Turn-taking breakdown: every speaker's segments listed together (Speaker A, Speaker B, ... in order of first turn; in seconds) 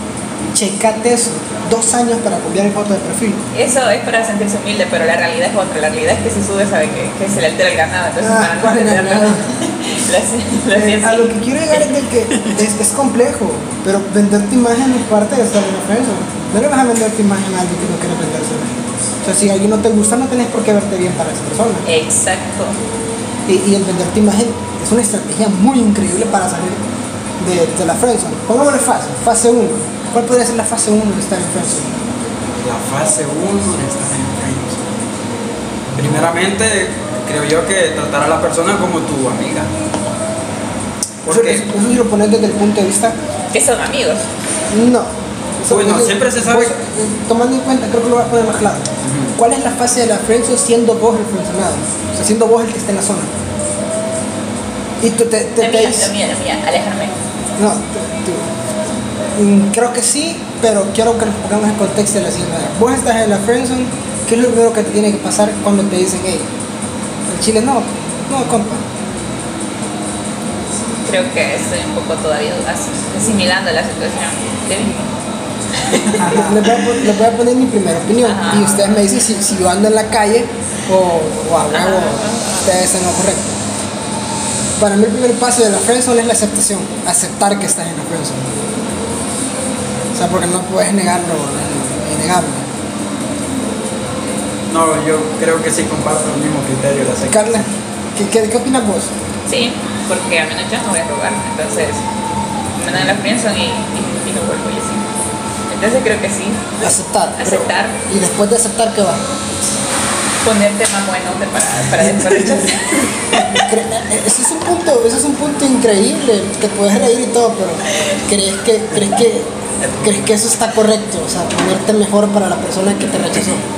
Speaker A: 0.5-3.4, 8.2-9.5, 10.7-21.9, 23.5-26.8, 27.4-32.0, 41.3-43.1, 44.7-53.3, 55.0-56.1, 57.6-58.5, 59.3-66.5, 67.3-68.8, 76.1-83.6, 84.8-88.5, 90.1-92.7, 97.3-99.1, 106.8-109.3, 113.5-119.5, 120.0-123.7
Speaker B: 3.5-11.4, 21.9-22.8, 43.5-44.3, 55.6-57.2, 71.1-75.1, 78.2-78.9, 81.7-82.7, 99.5-102.0, 102.8-105.1, 105.7-106.8, 107.4-108.0, 110.4-113.5
Speaker C: 32.5-35.0, 36.0-39.7, 41.2-41.7, 45.7-46.7, 49.0-49.4, 75.9-76.8, 94.7-97.7, 112.1-113.6, 119.8-120.3